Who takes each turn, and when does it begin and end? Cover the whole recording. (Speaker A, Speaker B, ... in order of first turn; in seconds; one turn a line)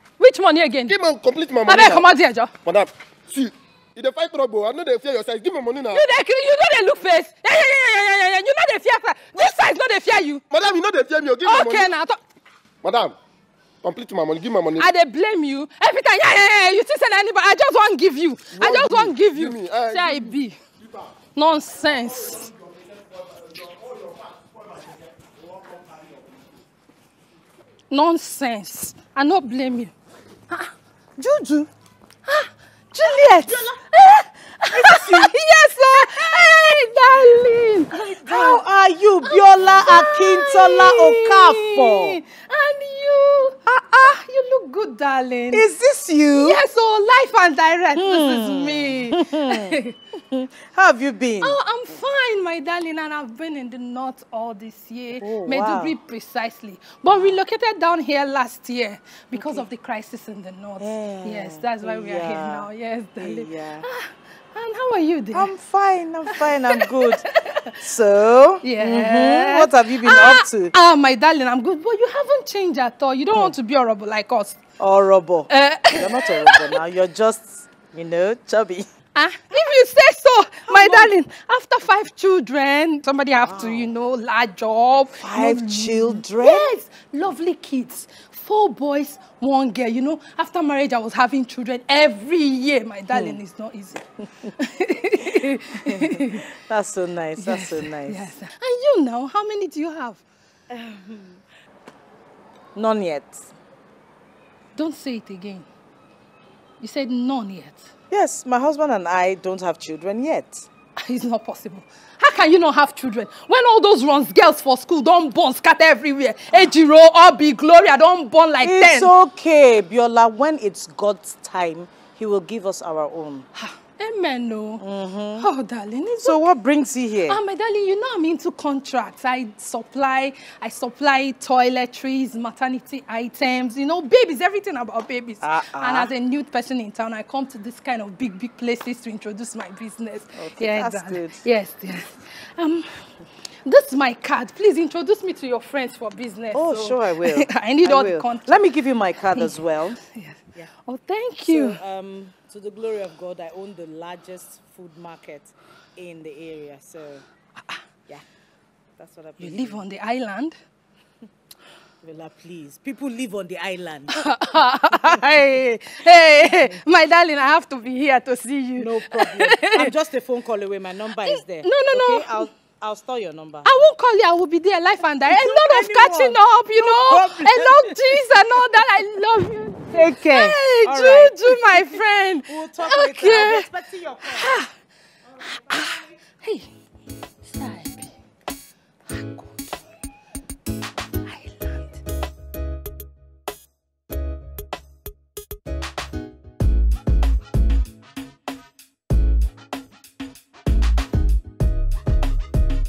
Speaker A: 0.2-1.0
Speaker B: 0.9-2.1
Speaker A: 1.6-2.5
Speaker B: 2.6-6.0
Speaker A: 5.9-10.5
Speaker B: 10.5-11.9
Speaker A: 11.4-12.2
Speaker B: 12.8-13.2
Speaker B: 13.8-14.9
Speaker A: 14.8-20.6
Speaker B: 18.5-20.4
Speaker A: 21.4-22.5
Speaker A: 27.9-29.9
Speaker C: 31.2-31.6
Speaker A: 32.3-38.7
Speaker C: 34.7-36.3
Speaker C: 37.9-42.2
Speaker A: 39.2-45.6
Speaker C: 45.5-46.6
Speaker A: 46.4-50.0
Speaker C: 48.0-51.6
Speaker A: 51.4-65.5
Speaker C: 55.2-56.0
Speaker C: 59.3-59.7
Speaker C: 60.8-63.9
Speaker C: 65.3-70.7
Speaker A: 68.6-74.6
Speaker C: 74.8-78.9
Speaker A: 75.5-76.5
Speaker A: 79.2-96.5
Speaker C: 80.7-81.1
Speaker C: 83.4-83.9
Speaker C: 85.2-86.7
Speaker C: 93.1-93.4
Speaker C: 95.7-98.3
Speaker A: 97.4-100.2
Speaker C: 100.7-101.4
Speaker C: 102.8-103.5
Speaker A: 104.8-105.7
Speaker A: 106.8-107.9
Speaker C: 108.1-110.7
Speaker A: 111.0-119.1
Speaker C: 118.6-123.5
Speaker A: 123.5-124.8
Speaker C: 124.8-125.5
Speaker A: 125.4-126.5
Speaker C: 126.2-127.4
Speaker A: 127.3-143.1
Speaker C: 135.4-136.1
Speaker C: 140.3-141.4
Speaker A: 143.7-148.6
Speaker C: 146.5-150.0
Speaker A: 150.1-151.8
Speaker C: 151.4-157.2
Speaker C: 159.0-159.8
Speaker A: 159.4-160.6
Speaker C: 162.0-164.3
Speaker A: 164.1-169.9
Speaker C: 168.8-173.7
Speaker A: 171.2-172.5
Speaker A: 173.7-183.7
Speaker C: 175.3-178.2
Speaker C: 179.9-184.6
Speaker A: 184.3-184.7
Speaker A: 185.5-186.7
Speaker A: 187.5-188.1
Speaker A: 189.1-189.8
Speaker A: 191.2-192.0